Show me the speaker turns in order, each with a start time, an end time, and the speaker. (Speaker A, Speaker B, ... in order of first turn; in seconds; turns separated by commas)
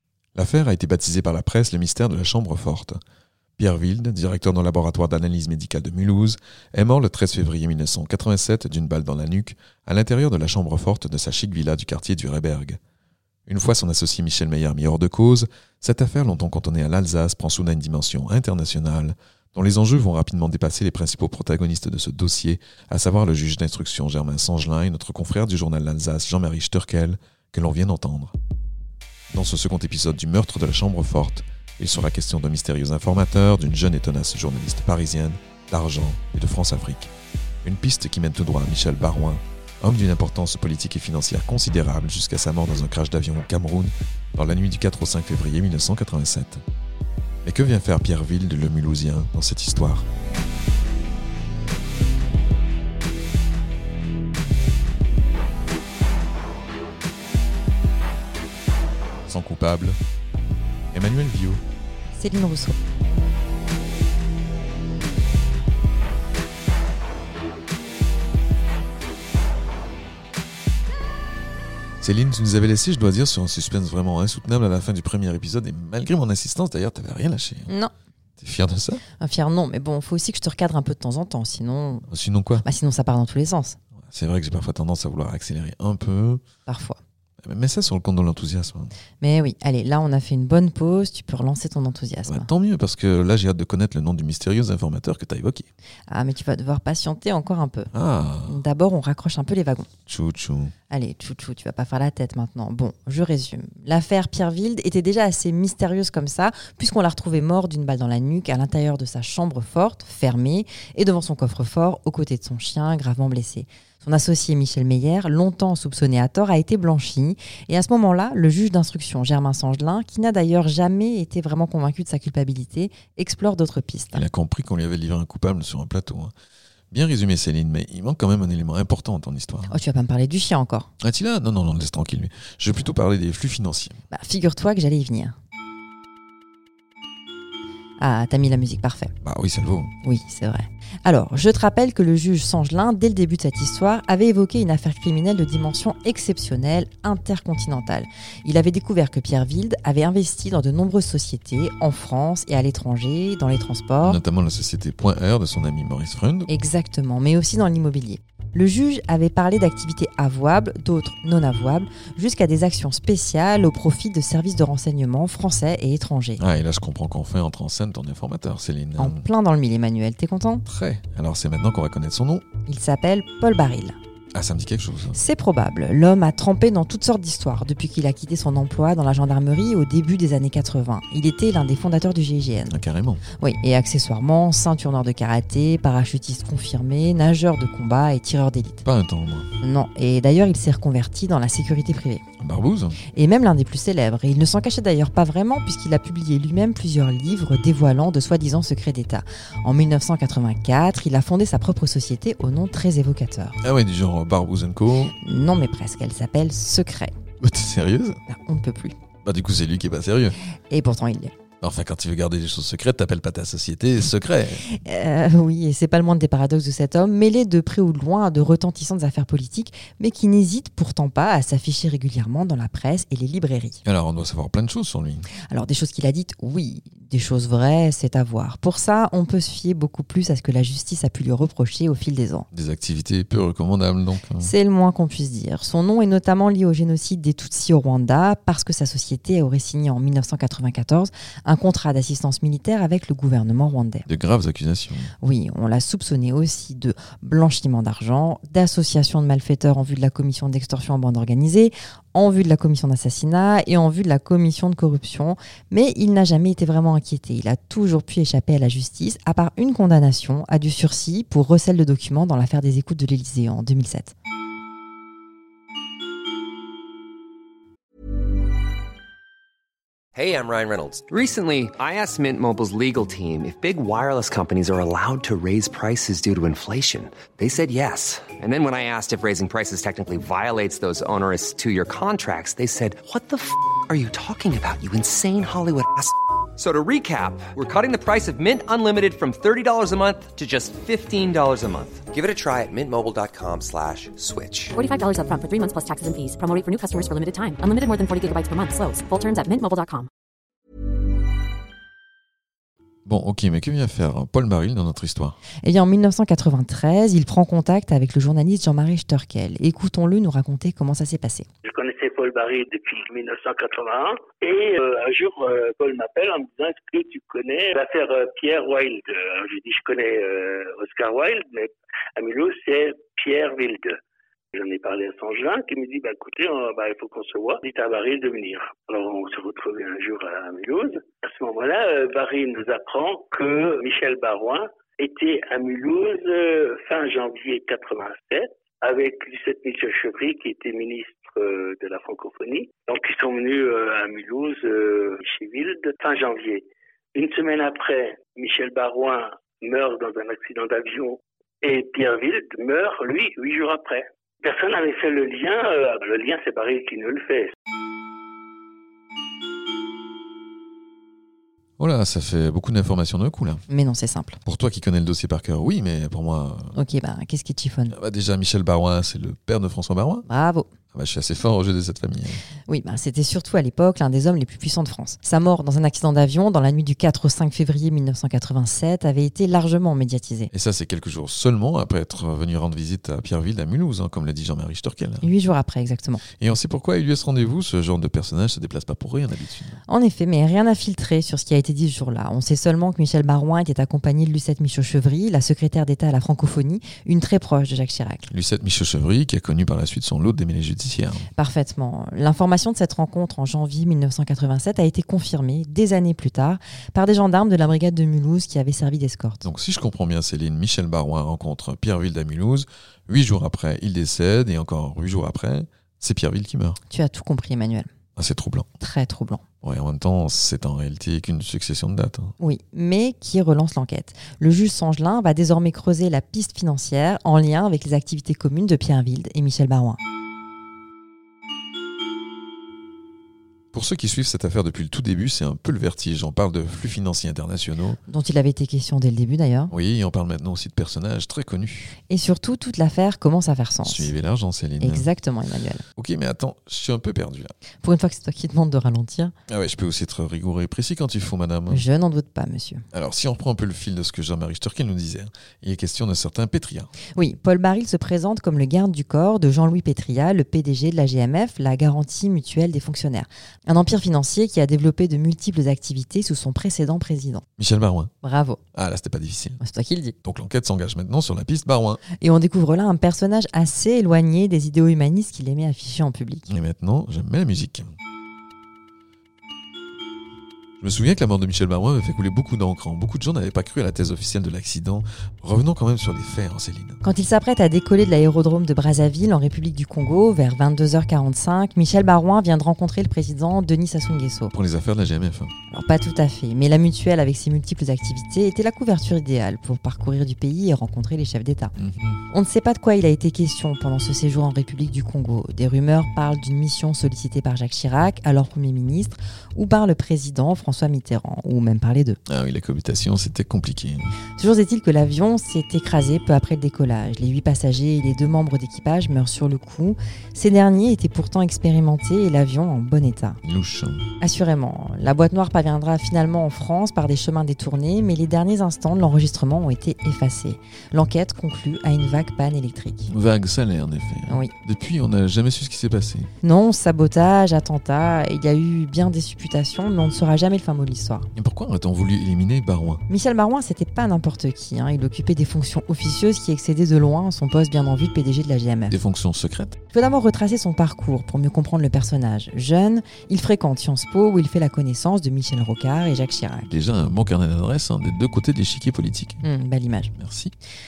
Speaker A: 0.3-3.0, Speaker A: 3.6-12.8, Speaker A: 13.5-28.3, Speaker A: 29.3-37.1, Speaker A: 37.6-46.6, Speaker A: 47.4-50.1, Speaker A: 59.3-60.0, Speaker A: 60.9-61.6, Speaker B: 62.1-62.8, Speaker A: 72.0-77.7, Speaker A: 78.4-79.0, Speaker B: 79.2-82.1, Speaker A: 82.1-82.6, Speaker B: 82.6-83.8, Speaker A: 84.1-86.4, Speaker B: 86.7-87.0, Speaker A: 87.4-88.9, Speaker B: 89.2-92.5, Speaker A: 92.3-95.7, Speaker B: 96.1-97.9, Speaker A: 97.9-98.6, Speaker B: 98.5-99.9, Speaker A: 100.1-100.7, Speaker B: 100.9-124.2, Speaker A: 124.1-126.3, Speaker A: 126.9-129.8, Speaker B: 129.7-130.9, Speaker A: 131.0-134.0, Speaker B: 134.1-135.3, Speaker B: 138.0-139.1, Speaker A: 139.2-139.9, Speaker B: 140.0-154.2, Speaker A: 154.0-156.5, Speaker B: 156.5-166.4, Speaker A: 166.4-169.2, Speaker B: 169.0-170.6, Speaker A: 170.7-172.4, Speaker B: 172.7-174.0, Speaker A: 174.3-175.2, Speaker B: 175.1-182.8, Speaker A: 182.7-183.2, Speaker B: 183.4-188.8, Speaker A: 188.8-189.5, Speaker B: 189.6-192.2, Speaker A: 192.4-193.0, Speaker B: 193.1-203.6, Speaker A: 203.6-205.1, Speaker B: 205.1-207.1, Speaker A: 207.4-208.2, Speaker B: 208.3-208.9, Speaker A: 209.2-210.4, Speaker B: 210.7-211.3, Speaker A: 211.6-214.6, Speaker B: 214.7-223.8, Speaker A: 223.8-225.3, Speaker B: 225.5-232.5, Speaker A: 232.5-234.5, Speaker B: 234.4-244.1, Speaker A: 244.1-245.1, Speaker B: 245.2-264.1, Speaker C: 270.1-294.7, Speaker D: 294.7-300.1, Speaker A: 303.1-305.4, Speaker B: 305.6-311.5, Speaker E: 311.6-323.9, Speaker E: 324.5-346.6, Speaker E: 347.1-357.5, Speaker A: 361.8-363.6, Speaker B: 363.7-364.4, Speaker A: 364.4-366.7, Speaker B: 366.7-367.9, Speaker A: 367.9-370.2, Speaker B: 370.3-370.7, Speaker A: 370.9-372.4, Speaker B: 372.7-380.5, Speaker A: 380.5-385.3, Speaker B: 385.2-386.2, Speaker A: 386.4-389.8, Speaker B: 389.9-398.3, Speaker A: 398.3-401.3, Speaker B: 401.4-409.4, Speaker A: 409.4-416.8, Speaker B: 416.9-417.9, Speaker A: 418.1-418.7, Speaker B: 418.8-419.4, Speaker A: 419.6-422.3, Speaker B: 422.4-430.0, Speaker A: 433.7-438.0, Speaker B: 438.1-439.7, Speaker A: 439.7-441.9, Speaker B: 442.1-444.1, Speaker A: 443.8-445.1, Speaker B: 444.8-445.8, Speaker A: 445.9-447.5, Speaker B: 447.8-449.3, Speaker A: 449.5-451.8, Speaker B: 451.7-452.8, Speaker A: 452.9-456.9, Speaker B: 457.1-467.4, Speaker A: 467.6-468.1, Speaker B: 468.2-468.6, Speaker A: 468.7-469.6, Speaker B: 469.6-470.1, Speaker A: 470.2-472.0, Speaker B: 472.2-476.5, Speaker A: 476.5-477.9, Speaker A: 480.8-487.0, Speaker B: 487.0-494.5, Speaker A: 494.5-495.5, Speaker B: 495.7-501.7, Speaker A: 501.8-502.2, Speaker B: 502.3-512.2, Speaker A: 512.3-514.1, Speaker B: 514.4-523.4, Speaker A: 523.4-524.0, Speaker B: 524.2-533.1, Speaker A: 533.1-536.3, Speaker B: 536.4-541.3, Speaker A: 541.3-543.0, Speaker B: 543.1-549.0, Speaker A: 548.9-549.8, Speaker B: 549.9-556.7, Speaker A: 556.7-559.4, Speaker B: 559.4-560.1, Speaker A: 560.1-560.5